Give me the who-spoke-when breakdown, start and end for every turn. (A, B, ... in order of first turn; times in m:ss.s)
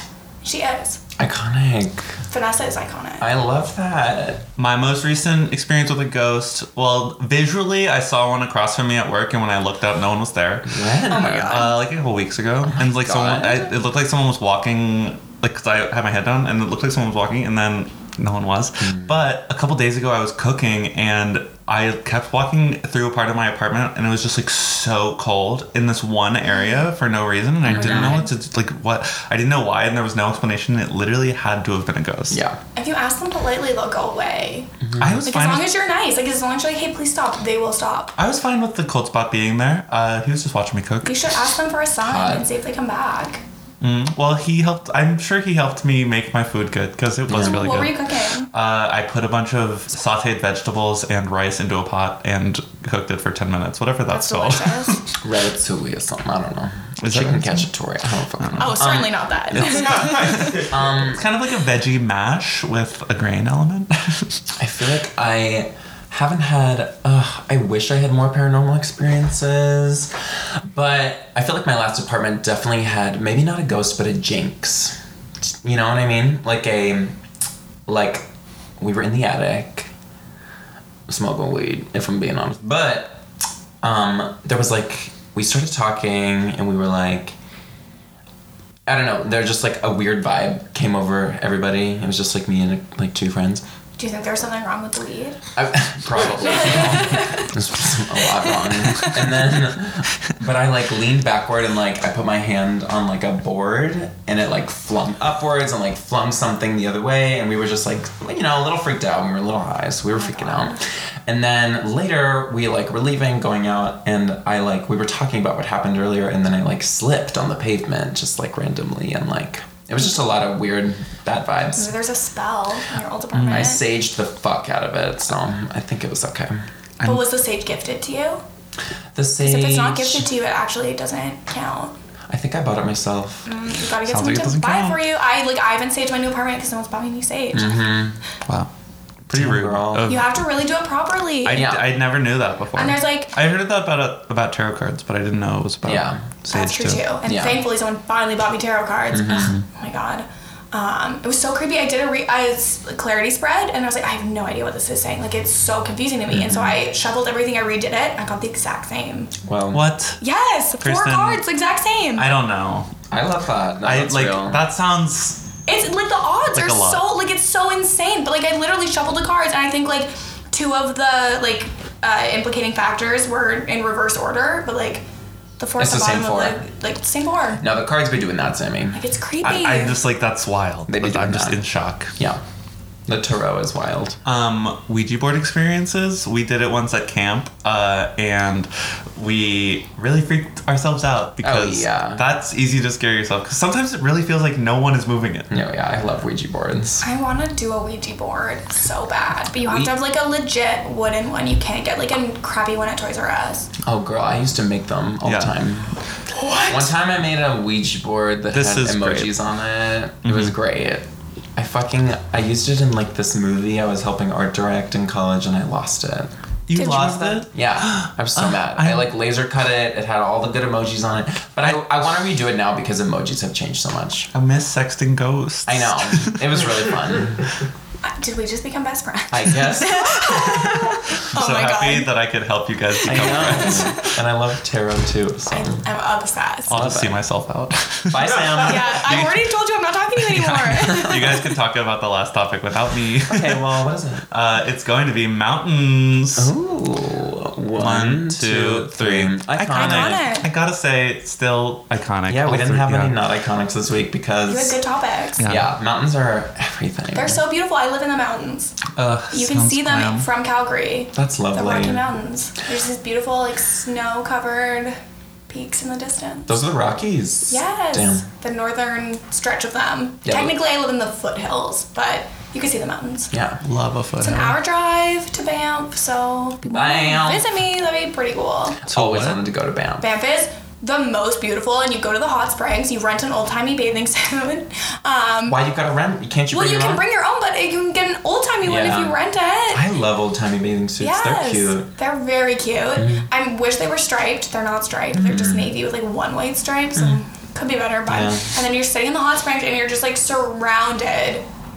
0:00.4-0:01.0 A
0:01.2-0:02.1 B
0:02.3-0:03.3 A
0:03.2-0:04.4 B
0:04.6-0:32.4 C
0:10.7-0:11.6 B
0:11.1-0:11.8 A
0:12.7-0:13.7 B
0:18.8-0:19.2 B
0:26.6-0:26.8 A
0:27.6-0:28.2 B
0:27.8-0:28.2 A
0:32.3-0:32.6 B
0:32.8-0:34.7 A
0:34.8-0:35.2 B
0:35.0-0:35.7 C
0:35.2-0:38.1 A
0:38.2-0:41.2 C
0:41.0-0:43.4 A
0:42.0-0:42.5 B
0:43.8-0:55.1 C
0:47.3-0:47.6 B
0:47.3-0:48.5 A
0:54.1-0:55.0 A
0:55.2-1:01.2 B
0:57.0-0:57.7 C
0:58.4-0:58.9 C
0:58.6-1:00.6 A
0:59.6-1:04.3 C
1:04.6-1:17.2 B
1:17.9-1:18.3 B
1:18.8-1:19.9 B
1:21.1-1:23.2 B
1:23.8-1:27.3 B
1:28.8-1:33.6 B
1:34.0-1:35.4 A
1:35.5-2:01.9 B
1:36.4-1:37.5 A
1:38.2-1:39.1 A
1:50.2-1:50.8 A
2:01.7-2:03.8 A
2:03.4-2:03.6 C
2:03.4-2:06.6 B
2:07.0-2:08.4 A
2:09.1-2:10.3 B
2:09.4-2:11.9 A
2:12.3-2:13.5 B
2:13.4-2:17.8 A
2:14.0-2:15.0 C
2:17.5-2:18.2 B
2:19.2-2:20.3 C
2:19.3-2:20.1 B
2:20.1-2:21.6 A
2:21.4-2:27.0 C
2:21.5-2:21.9 B
2:22.8-2:23.3 A
2:25.8-2:26.2 B
2:26.5-2:39.3 A
2:27.2-2:27.6 B
2:29.1-2:29.5 B
2:36.3-2:36.8 B
2:39.4-2:39.8 B
2:39.7-2:40.2 C
2:40.2-2:42.3 A
2:40.8-2:41.4 C
2:42.2-2:43.0 C
2:43.1-2:44.6 B
2:43.8-2:45.4 C
2:45.7-2:55.0 A
2:46.5-2:47.1 C
2:55.6-2:57.6 A
2:55.8-2:56.6 B
2:57.6-2:59.0 B
2:58.9-3:00.0 A
2:59.4-3:02.1 C
3:00.9-3:01.6 B
3:03.1-3:04.2 B
3:04.2-3:15.5 C
3:11.4-3:12.2 B
3:15.5-3:17.0 B
3:17.0-3:23.7 A
3:19.6-3:20.0 B
3:23.8-3:26.0 B
3:25.2-3:25.5 C
3:26.7-3:44.3 B
3:28.5-3:29.3 C
3:30.2-3:30.6 C
3:36.7-3:39.1 C
3:44.3-3:46.6 C
3:45.7-3:47.5 B
3:48.0-3:52.1 A
3:49.3-3:50.7 B
3:51.3-3:54.1 C
3:53.0-3:55.8 B
3:53.1-3:54.2 A
3:55.5-3:56.7 A
3:56.7-3:59.3 C
3:56.7-3:57.2 B
3:58.1-3:59.3 B
3:58.5-4:01.4 A
4:00.3-4:03.8 C
4:03.3-4:04.2 B
4:04.3-4:06.5 C
4:06.4-4:10.2 B
4:07.8-4:13.2 C
4:09.7-4:10.5 A
4:12.3-4:14.8 B
4:14.5-4:15.4 A
4:15.4-4:15.7 C
4:15.4-4:17.4 B
4:17.1-4:18.8 A
4:18.9-4:20.3 C
4:19.3-4:25.0 A
4:21.1-4:22.0 B
4:25.5-4:26.6 A
4:26.5-4:28.2 B
4:27.5-4:33.3 A
4:30.2-4:30.6 B
4:33.3-4:33.6 B
4:33.6-4:34.6 C
4:34.2-4:38.8 A
4:36.6-4:37.4 B
4:38.8-4:40.0 B
4:38.9-4:39.4 C
4:40.0-4:45.6 A
4:45.4-4:47.0 B
4:46.5-4:49.8 A
4:48.6-4:49.2 B
4:49.7-4:51.9 B
4:51.0-5:01.4 A
4:53.0-4:53.3 B
4:55.1-4:55.7 B
4:58.1-4:58.5 B